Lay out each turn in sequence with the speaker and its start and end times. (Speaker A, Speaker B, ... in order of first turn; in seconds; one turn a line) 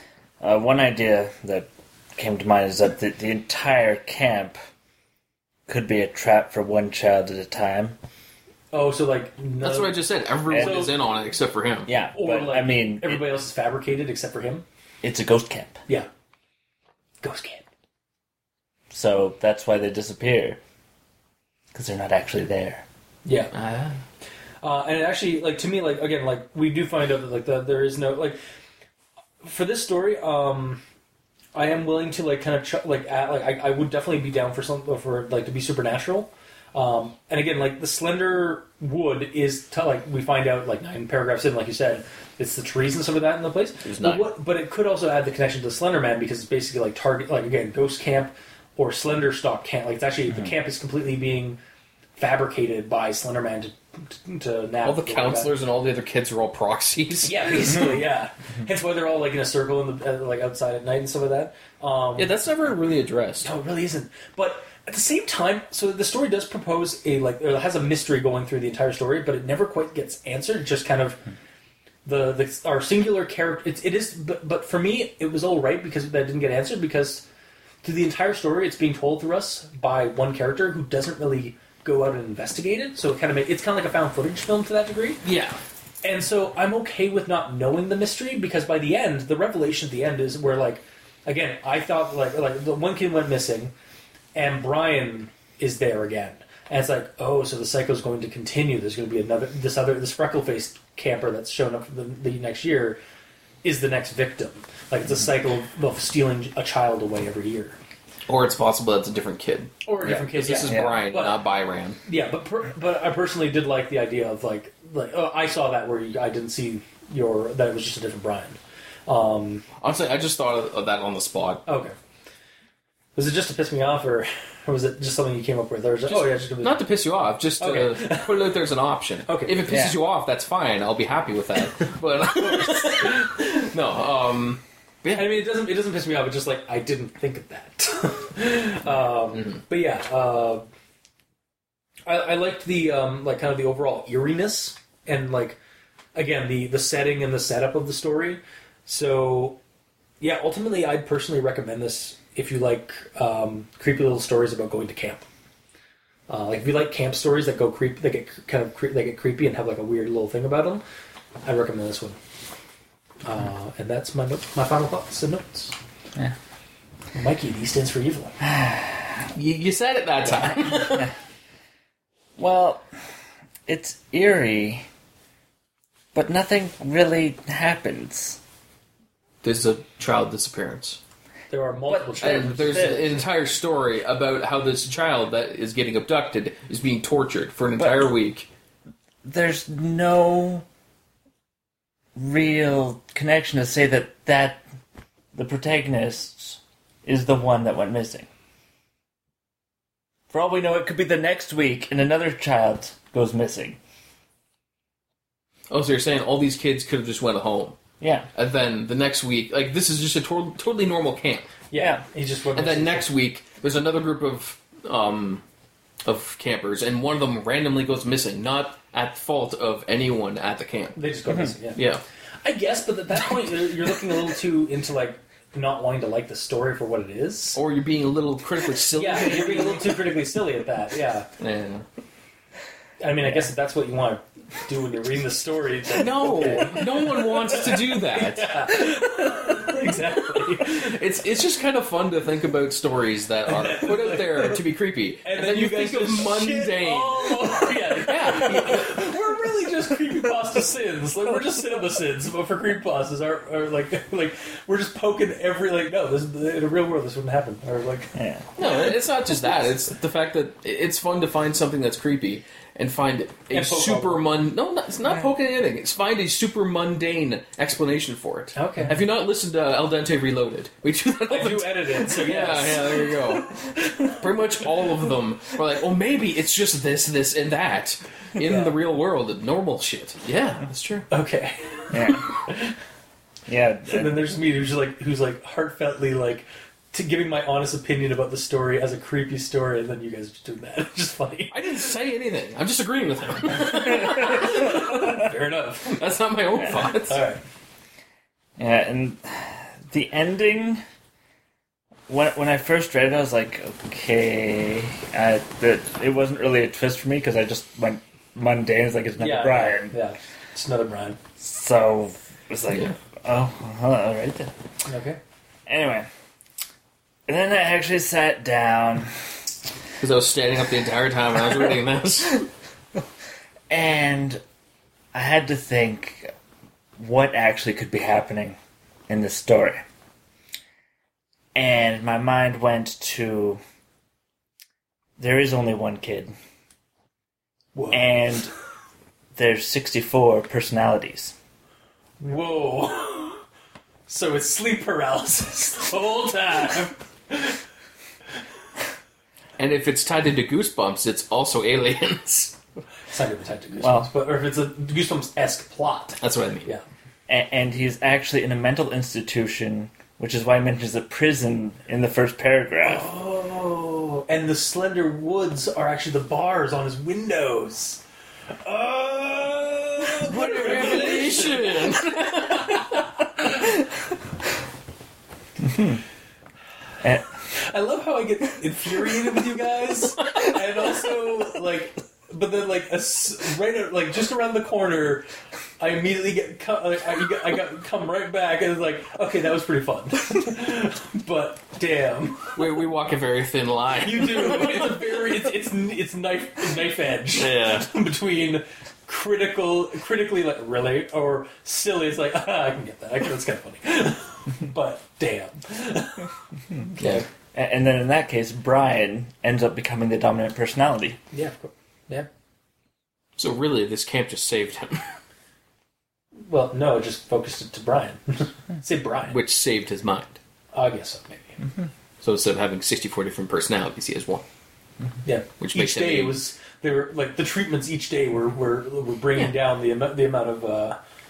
Speaker A: 0.4-4.6
Speaker A: 5.7-8.0
Speaker B: 8.7-10.0
Speaker C: 9.6-11.9
Speaker A: 10.5-10.8
Speaker B: 10.5-10.9
Speaker A: 11.9-13.2
Speaker B: 12.1-14.7
Speaker A: 15.0-15.8
Speaker B: 17.2-17.6
Speaker A: 18.9-20.6
Speaker A: 21.7-22.9
Speaker B: 23.2-23.5
Speaker C: 23.5-24.0
Speaker B: 24.6-28.4
Speaker B: 29.4-30.8
Speaker B: 31.5-51.6
Speaker C: 43.8-44.3
Speaker B: 52.2-55.5
Speaker C: 54.8-57.9
Speaker B: 57.2-62.3
Speaker C: 62.2-63.5
Speaker B: 63.4-71.2
Speaker B: 72.0-77.2
Speaker B: 77.8-85.2
Speaker C: 85.2-85.6
Speaker B: 86.0-93.7
Speaker B: 94.3-103.0
Speaker B: 103.6-107.8
Speaker C: 108.3-112.0
Speaker B: 109.8-111.4
Speaker A: 110.7-111.0
Speaker B: 112.0-119.7
Speaker C: 119.8-121.7
Speaker B: 121.7-122.0
Speaker B: 123.2-126.8
Speaker C: 126.1-135.4
Speaker B: 127.6-128.5
Speaker B: 129.3-129.6
Speaker A: 129.7-130.0
Speaker B: 132.3-133.5
Speaker B: 135.1-140.6
Speaker C: 139.3-139.6
Speaker B: 142.1-145.6
Speaker B: 146.2-149.6
Speaker B: 150.2-155.3
Speaker B: 156.3-160.8
Speaker B: 161.4-162.2
Speaker B: 163.2-165.8
Speaker B: 167.1-168.4
Speaker A: 168.5-169.1
Speaker C: 169.3-171.1
Speaker A: 172.4-172.9
Speaker A: 173.7-174.9
Speaker A: 176.1-178.4
Speaker C: 179.4-181.0
Speaker B: 181.5-183.2
Speaker A: 181.9-183.1
Speaker C: 182.2-188.5
Speaker A: 187.8-188.0
Speaker A: 189.2-190.7
Speaker A: 192.2-194.6
Speaker A: 195.3-198.3
Speaker A: 200.3-203.8
Speaker C: 205.7-207.8
Speaker A: 208.0-208.3
Speaker C: 208.3-211.5
Speaker B: 211.7-213.1
Speaker A: 211.8-212.0
Speaker C: 212.6-215.4
Speaker C: 216.1-221.0
Speaker B: 221.0-221.8
Speaker C: 221.8-222.0
Speaker B: 222.4-227.6
Speaker C: 227.6-230.1
Speaker B: 229.0-231.3
Speaker C: 231.4-231.9
Speaker B: 233.0-241.0
Speaker C: 235.9-239.0
Speaker C: 240.3-249.3
Speaker B: 243.5-244.6
Speaker B: 245.2-258.2
Speaker A: 258.1-258.5
Speaker C: 258.6-281.1
Speaker B: 263.5-264.3
Speaker B: 268.6-269.0
Speaker B: 271.3-274.2
Speaker B: 278.4-278.8
Speaker B: 281.1-282.8
Speaker A: 281.9-282.3
Speaker A: 283.5-284.2
Speaker B: 283.9-291.6
Speaker C: 291.5-295.3
Speaker B: 293.7-296.1
Speaker C: 295.8-297.2
Speaker B: 296.7-297.4
Speaker A: 298.6-300.8
Speaker A: 302.1-310.0
Speaker B: 309.2-311.2
Speaker A: 311.4-314.5
Speaker B: 314.9-315.2
Speaker A: 315.7-316.1
Speaker A: 317.3-319.3
Speaker C: 320.0-322.5
Speaker A: 323.7-324.4
Speaker A: 325.1-326.3
Speaker A: 327.0-328.6
Speaker A: 329.1-329.9
Speaker A: 331.6-333.6
Speaker A: 335.2-336.3
Speaker B: 337.8-338.1
Speaker A: 337.9-338.5
Speaker A: 339.4-341.4
Speaker B: 342.2-343.4
Speaker B: 344.1-347.6
Speaker C: 349.6-352.6
Speaker B: 353.1-356.8
Speaker A: 353.8-354.1
Speaker C: 356.2-356.7
Speaker A: 357.3-363.1
Speaker B: 362.8-368.0
Speaker B: 368.6-373.8
Speaker C: 370.2-373.0
Speaker A: 375.6-376.0
Speaker A: 377.0-377.3
Speaker B: 377.4-385.3
Speaker B: 385.8-392.6
Speaker C: 392.6-395.0
Speaker B: 394.0-407.2
Speaker C: 397.4-397.9
Speaker C: 407.0-407.2
Speaker A: 407.5-411.2
Speaker B: 411.3-412.3
Speaker C: 413.4-415.2
Speaker B: 416.5-419.4
Speaker C: 419.3-420.4
Speaker B: 420.7-421.6
Speaker C: 422.2-424.4
Speaker B: 425.2-431.0
Speaker C: 425.6-426.4